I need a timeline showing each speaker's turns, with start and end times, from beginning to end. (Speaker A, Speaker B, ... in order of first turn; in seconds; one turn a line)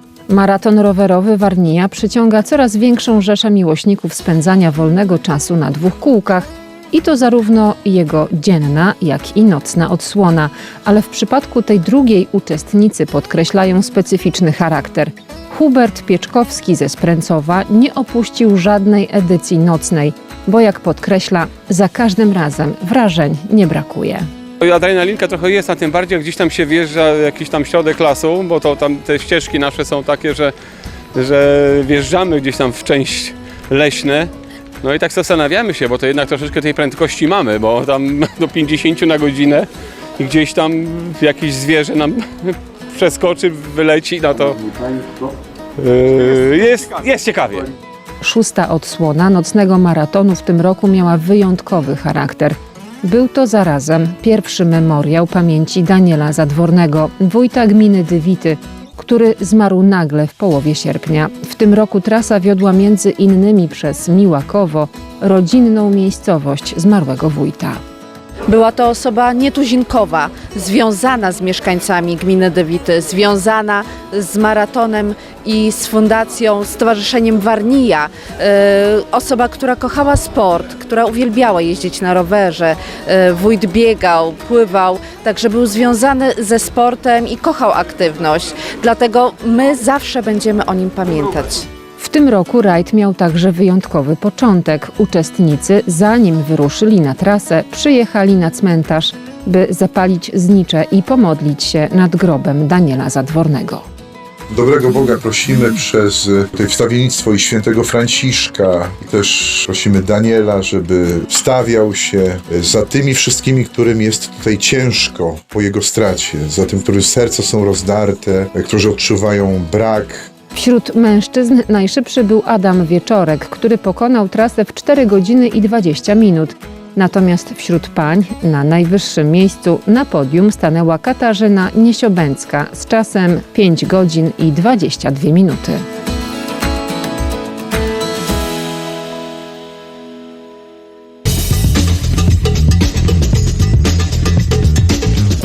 Speaker A: 0.3-24.2
Speaker B: 24.6-30.5
Speaker B: 31.1-34.3
Speaker B: 34.8-39.7
Speaker B: 40.2-44.6
Speaker B: 45.8-47.6
Speaker A: 48.2-67.8
Speaker C: 68.5-91.7
Speaker A: 92.0-103.8
Speaker D: 104.5-120.3
Speaker A: 120.5-135.8